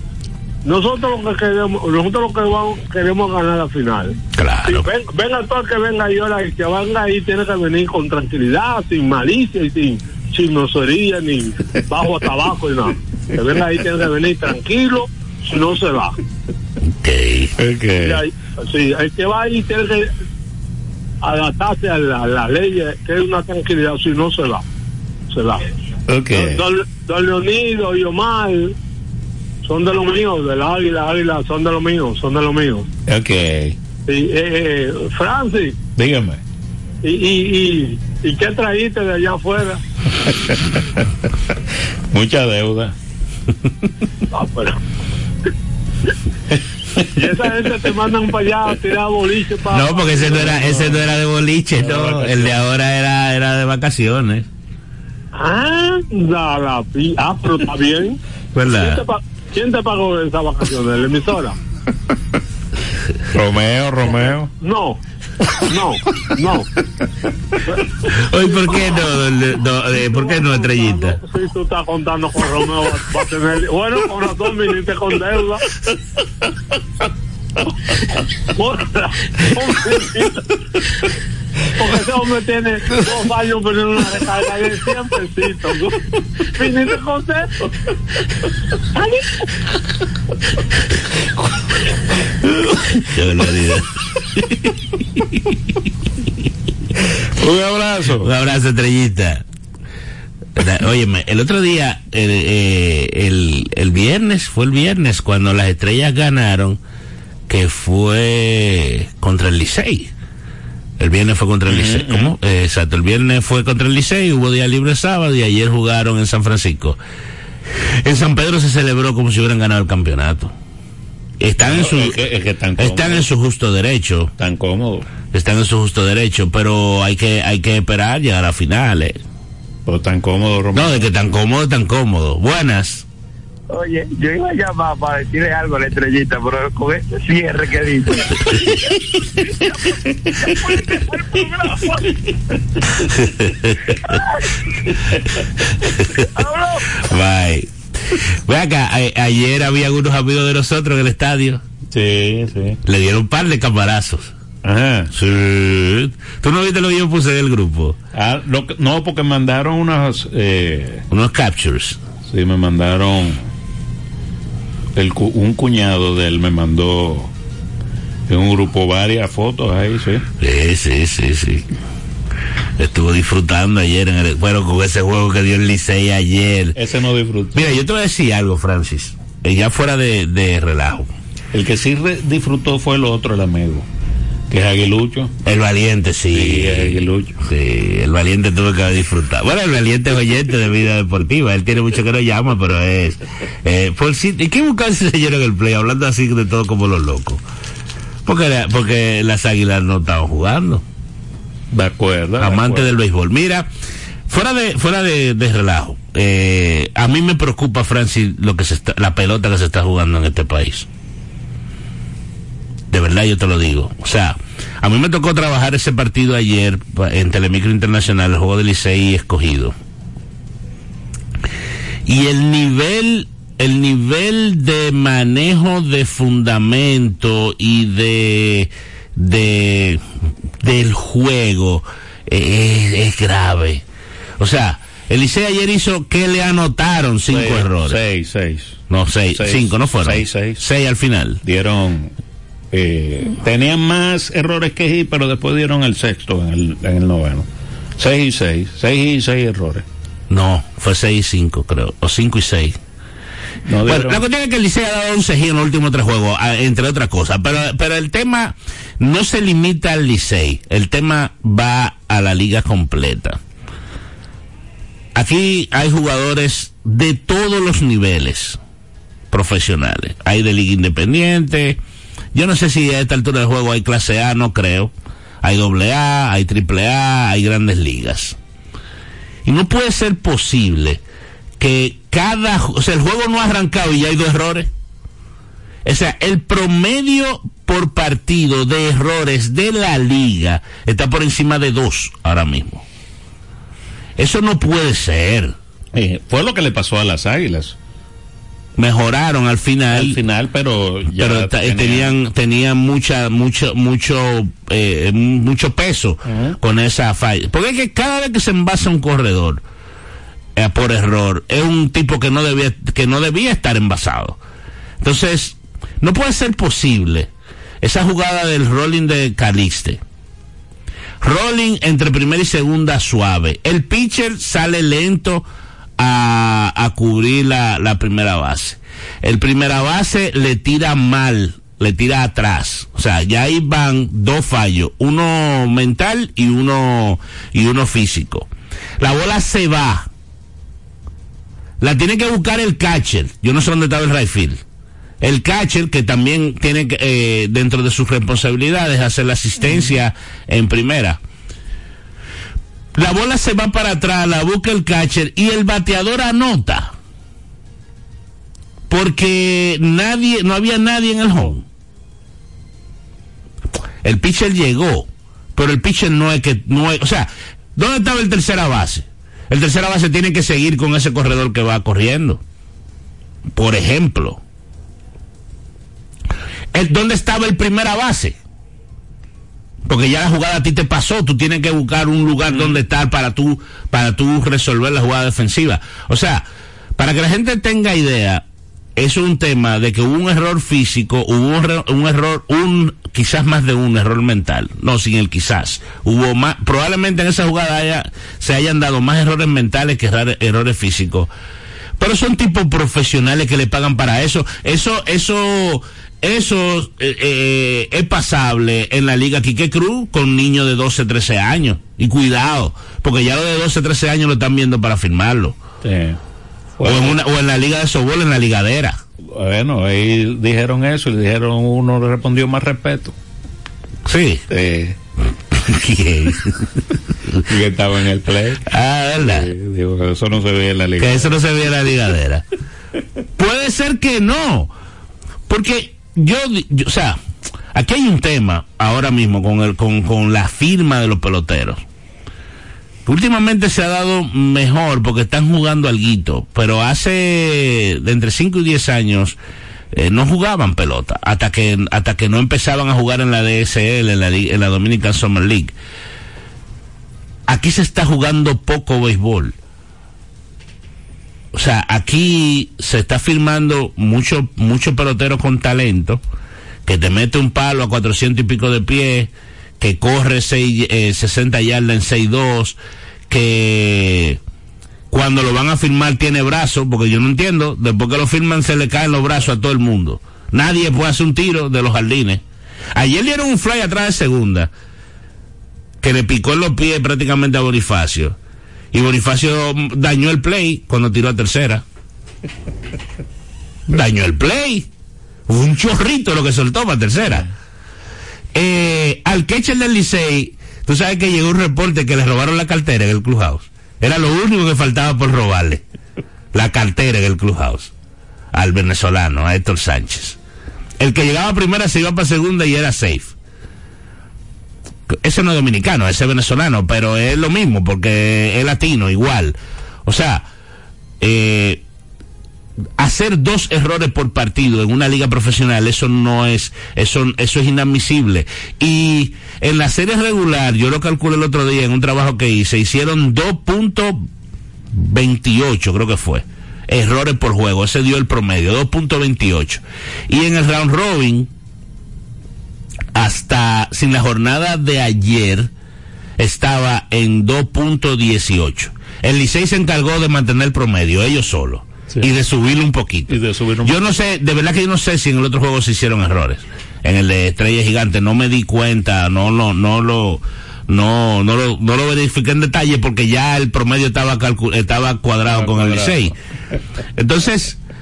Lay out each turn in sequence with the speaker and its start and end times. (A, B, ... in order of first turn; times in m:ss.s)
0:00.6-0:16.2 A
0:04.4-0:04.9 B
0:17.0-0:17.5 B
0:17.6-0:18.2 C
0:18.0-0:20.1 A
0:21.2-0:24.6 A
0:25.3-0:25.6 A
0:26.1-0:26.6 C
0:26.3-0:28.8 A
0:29.6-0:32.9 A
0:33.1-0:33.8 C
0:34.1-0:35.8 A
0:36.0-0:36.4 C
0:37.0-0:39.8 A
0:40.2-0:41.0 C
0:42.1-0:43.0 C
0:44.3-0:44.8 A
0:46.5-0:47.1 C
0:47.2-0:50.9 A
0:49.7-0:54.5 B
0:51.8-0:52.6 C
0:55.3-1:01.6 A
0:58.5-0:59.0 B
1:03.3-1:04.5 C
1:04.2-1:05.0 A
1:05.6-1:06.7 A
1:07.7-1:08.9 A
1:08.2-1:11.2 B
1:10.0-1:15.7 A
1:18.6-1:20.4 A
1:21.8-1:27.6 A
1:28.9-1:29.4 A
1:33.0-1:34.5 B
1:37.4-1:38.3 C
1:38.2-1:39.4 B
1:40.6-1:46.8 B
1:47.5-1:50.1 B
1:51.0-1:57.0 B
1:51.7-1:52.3 C
1:58.0-2:00.5 B
2:01.4-2:02.3 B
2:01.6-2:03.3 C
2:02.8-2:04.3 B
2:04.4-2:05.1 C
2:05.3-2:09.2 B
2:09.9-2:11.1 C
2:10.7-2:13.0 B
2:13.7-2:18.4 D
2:21.1-2:21.8 A
2:23.2-2:23.8 B
2:27.0-2:31.6 B
2:31.9-2:32.8 C
2:32.9-2:34.3 B
2:34.6-2:35.1 C
2:35.1-2:38.0 B
2:38.1-2:41.0 C
2:41.1-2:42.0 B
2:42.3-2:43.5 C
2:45.0-2:47.3 C
2:48.3-2:50.2 C
2:50.4-2:51.7 B
2:52.8-2:56.8 B
2:56.8-2:57.6 C
2:57.5-3:01.1 B
3:01.5-3:03.9 C
3:04.5-3:05.3 C
3:05.4-3:17.4 B
3:06.3-3:07.4 C
3:18.3-3:20.8 B
3:21.7-3:22.9 C
3:22.4-3:23.7 B
3:24.3-3:30.9 B
3:32.9-3:39.8 B
3:42.1-3:50.0 B
3:50.6-3:53.8 B
3:54.4-3:58.0 B
3:57.3-3:58.8 C
3:58.9-4:01.4 B
3:59.3-4:00.6 C
4:01.4-4:02.2 C
4:02.7-4:07.5 C
4:08.0-4:09.9 C
4:10.3-4:12.8 B
4:13.7-4:14.2 C
4:13.9-4:23.4 B
4:25.2-4:28.6 B
4:29.3-4:31.8 B
4:32.3-4:34.9 B
4:35.4-4:38.4 B
4:39.4-4:41.0 B
4:41.6-4:44.7 B
4:45.8-4:52.8 B
4:54.2-4:55.6 B
4:55.9-4:57.8 C
4:58.8-5:00.2 B
4:59.9-5:02.1 C
5:01.1-5:09.6 B
5:06.3-5:06.6 C
5:10.6-5:14.4 B
5:15.0-5:17.3 B
5:17.8-5:20.0 B
5:21.2-5:25.4 B
5:26.0-5:38.5 B
5:39.0-5:40.1 B
5:41.8-5:44.6 B
5:45.2-5:51.2 B
5:53.0-5:56.9 B
5:58.9-6:01.6 B
6:04.0-6:12.4 B
6:13.6-6:14.4 B
6:16.7-6:18.4 B
6:19.9-6:26.4 B
6:27.0-6:28.4 B
6:29.0-6:41.3 B
6:42.0-6:55.6 B
6:55.8-6:56.2 C
6:56.8-6:57.2 C
6:56.8-6:59.0 B
6:59.3-7:03.2 C
7:04.0-7:04.4 B
7:04.5-7:05.0 C
7:05.6-7:06.7 B
7:07.5-7:08.6 C
7:08.7-7:09.5 B
7:09.2-7:11.4 C
7:11.0-7:12.4 B
7:13.4-7:14.7 B
7:15.5-7:17.2 B
7:17.7-7:21.8 B
7:23.1-7:29.4 B
7:29.9-7:35.7 B
7:37.5-7:39.6 B
7:41.5-7:46.2 B
7:46.9-7:52.8 B
7:53.3-7:54.4 B
7:55.1-8:02.4 B
8:03.0-8:04.7 B
8:06.0-8:08.4 B
8:08.9-8:11.8 B
8:13.9-8:14.9 B
8:15.5-8:17.5 B
8:18.5-8:25.8 B
8:26.5-8:27.9 B
8:28.5-8:30.4 B
8:31.0-8:33.3 B
8:35.1-8:40.4 B
8:41.2-8:41.8 B
8:43.0-8:54.3 B
8:54.9-9:01.5 B
9:03.2-9:05.7 B
9:06.4-9:26.3 B
9:13.3-9:14.1 C
9:25.5-9:26.3 C
9:27.2-9:27.8 B